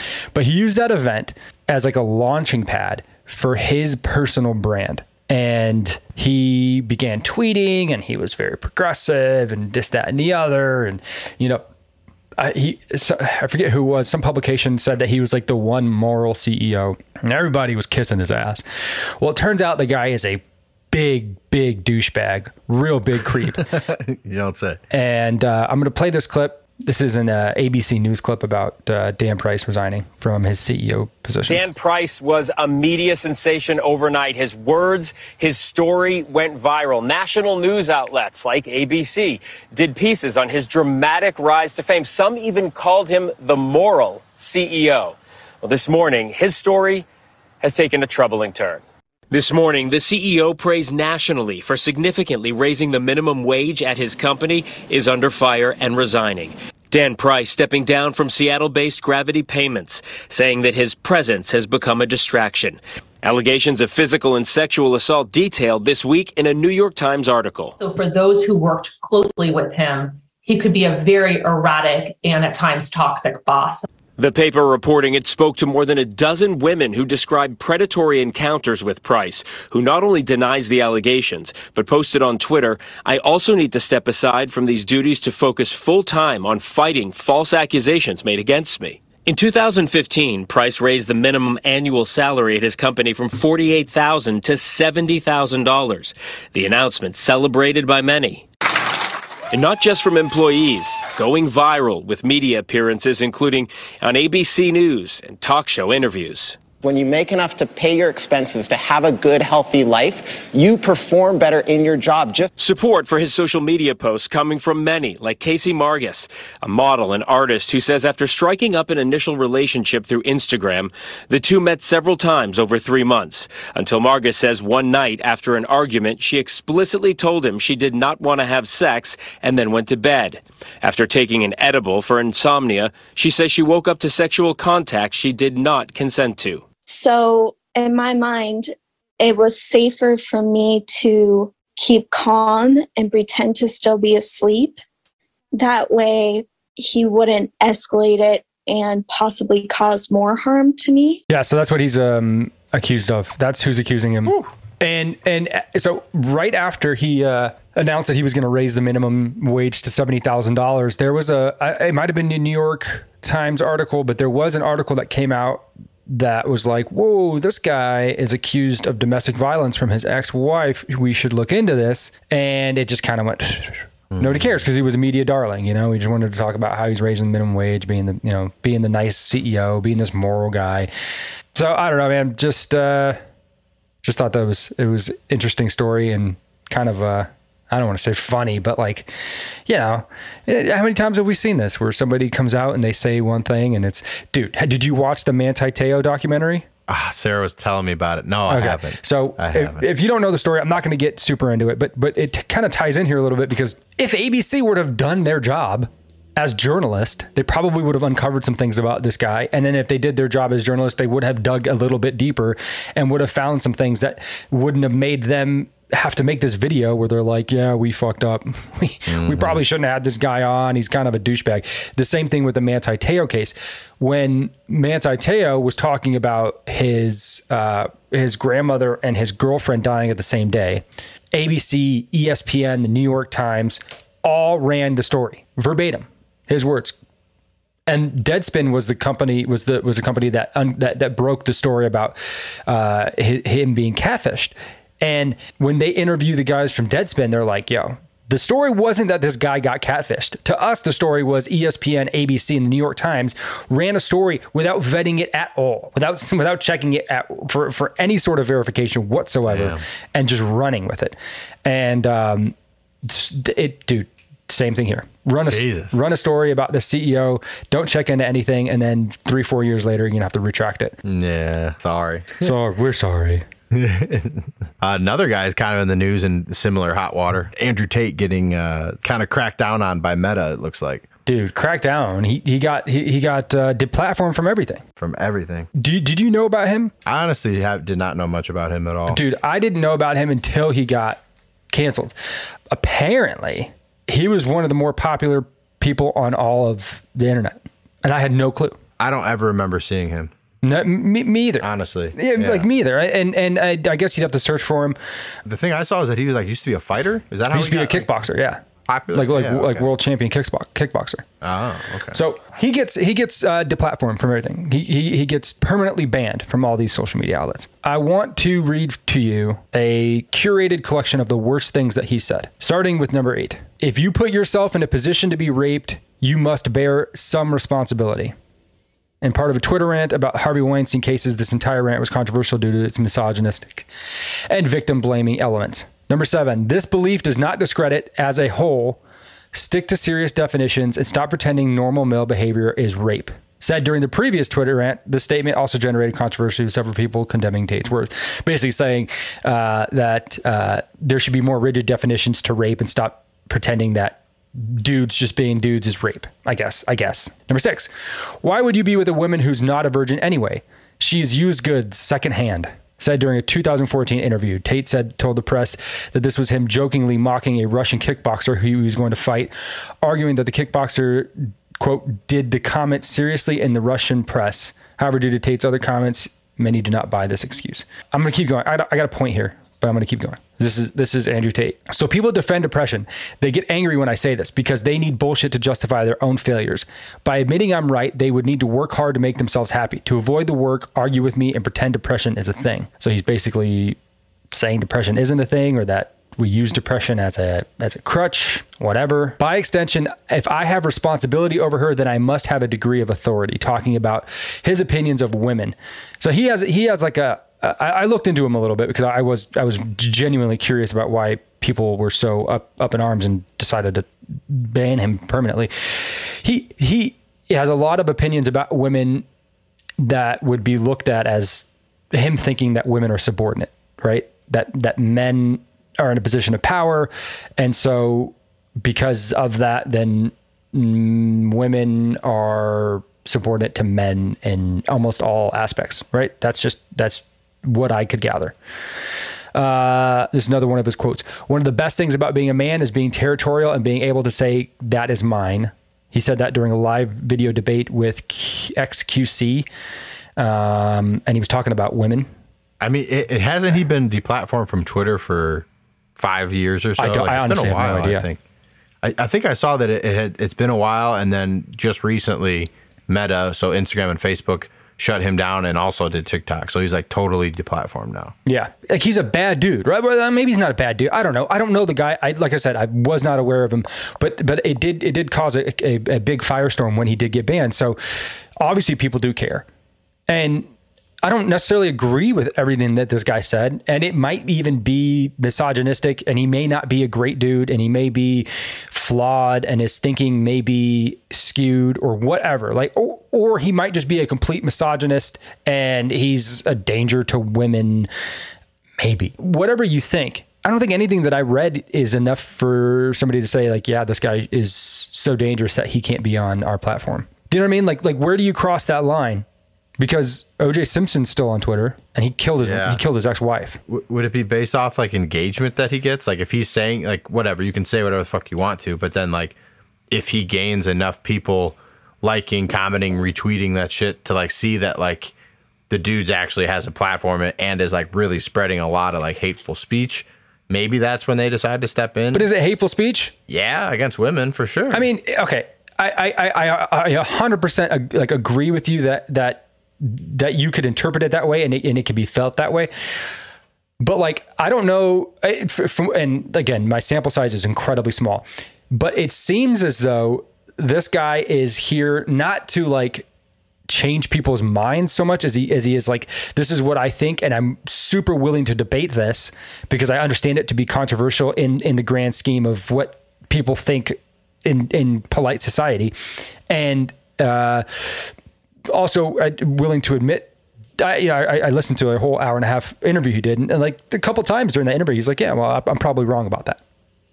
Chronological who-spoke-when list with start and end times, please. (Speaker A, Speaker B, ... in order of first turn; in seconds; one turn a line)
Speaker A: 0.3-11.7
Speaker A: 12.4-18.6
Speaker A: 19.2-23.7
Speaker B: 23.3-24.8
Speaker A: 24.9-31.6
Speaker C: 31.4-47.0
Speaker C: 47.6-67.7
Speaker D: 67.8-73.9
Speaker C: 74.2-98.5
Speaker C: 99.5-106.6
Speaker E: 106.8-112.5
Speaker C: 112.6-136.6
Speaker F: 136.9-144.8
Speaker F: 145.5-151.2
Speaker A: 151.3-180.9
Speaker B: 174.1-174.6
Speaker A: 181.5-183.2
Speaker A: 184.0-189.1
Speaker A: 189.7-196.7
Speaker B: 196.9-199.9
Speaker A: 198.5-236.9
Speaker B: 219.1-219.6
Speaker A: 237.9-271.0
Speaker B: 259.5-259.8
Speaker B: 265.4-266.0
Speaker B: 271.0-272.5
Speaker A: 272.4-273.4
Speaker B: 273.7-281.1
Speaker A: 281.2-284.8
Speaker B: 285.0-285.7
Speaker A: 285.7-286.9
Speaker B: 287.0-289.2
Speaker A: 289.1-291.2
Speaker A: 291.7-292.1
Speaker A: 292.7-298.8
Speaker B: 299.0-300.3
Speaker A: 300.6-305.0
Speaker B: 301.6-302.7
Speaker B: 305.4-308.1
Speaker A: 307.5-311.2
Speaker B: 308.9-309.9
Speaker B: 311.4-312.2
Speaker A: 312.1-328.3
Speaker A: 329.2-333.9
Speaker A: 334.5-339.0
Speaker A: 339.5-357.9
Speaker A: 358.4-394.0
Speaker A: 394.5-419.2
Speaker A: 420.0-438.6
Speaker A: 439.5-449.7
Speaker A: 450.4-452.3
Speaker B: 452.8-458.4
Speaker A: 457.0-458.3
Speaker B: 459.0-468.3
Speaker A: 468.4-478.0
Speaker A: 478.6-479.6
Speaker A: 480.3-480.7
Speaker A: 481.2-498.1
Speaker A: 499.0-509.4
Speaker A: 510.0-513.8
Speaker B: 512.6-513.0
Speaker B: 513.9-519.5
Speaker B: 520.1-525.3
Speaker B: 525.9-532.5
Speaker A: 532.3-533.3
Speaker B: 533.5-535.1
Speaker A: 534.9-542.9
Speaker A: 544.0-553.2
Speaker A: 553.9-566.1
Speaker A: 566.7-568.3
Speaker A: 568.9-576.8